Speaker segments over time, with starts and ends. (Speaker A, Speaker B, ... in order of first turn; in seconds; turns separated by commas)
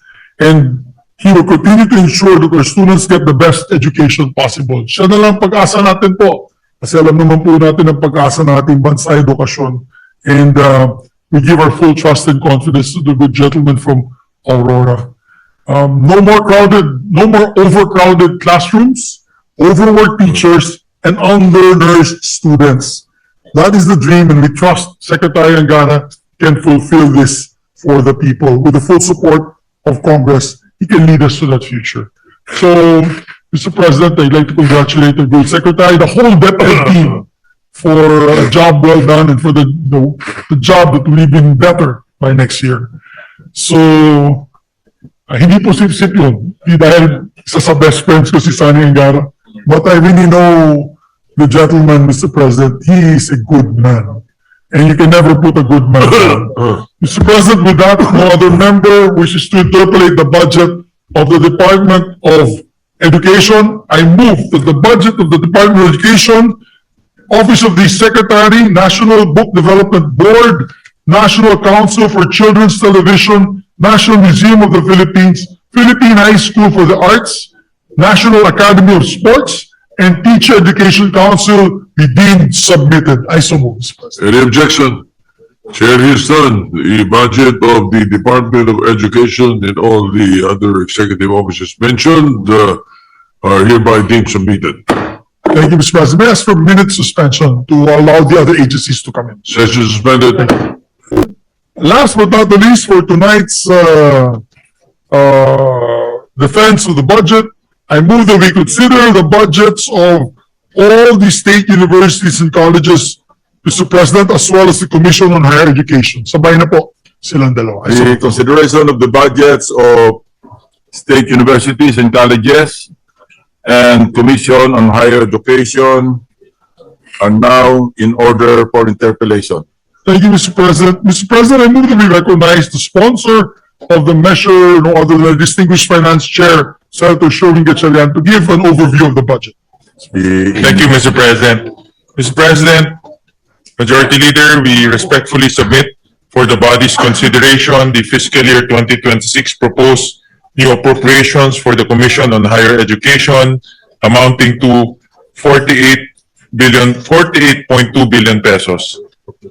Speaker A: 0.4-15.1, Speaker A: 15.7-42.9, Speaker A: 43.5-44.5, Speaker A: 45.3-54.2, Speaker A: 54.7-66.6, Speaker A: 67.3-84.2, Speaker B: 84.2-85.0, Speaker B: 85.7-92.8, Speaker B: 93.4-95.0, Speaker A: 95.5-99.4, Speaker B: 99.5-100.7, Speaker A: 101.1-104.4, Speaker A: 105.1-118.2, Speaker C: 117.8-120.2, Speaker C: 120.9-122.9, Speaker C: 123.6-126.2, Speaker C: 127.2-129.6, Speaker A: 130.0-139.5, Speaker C: 140.1-140.8, Speaker D: 140.6-142.9, Speaker D: 143.8-159.0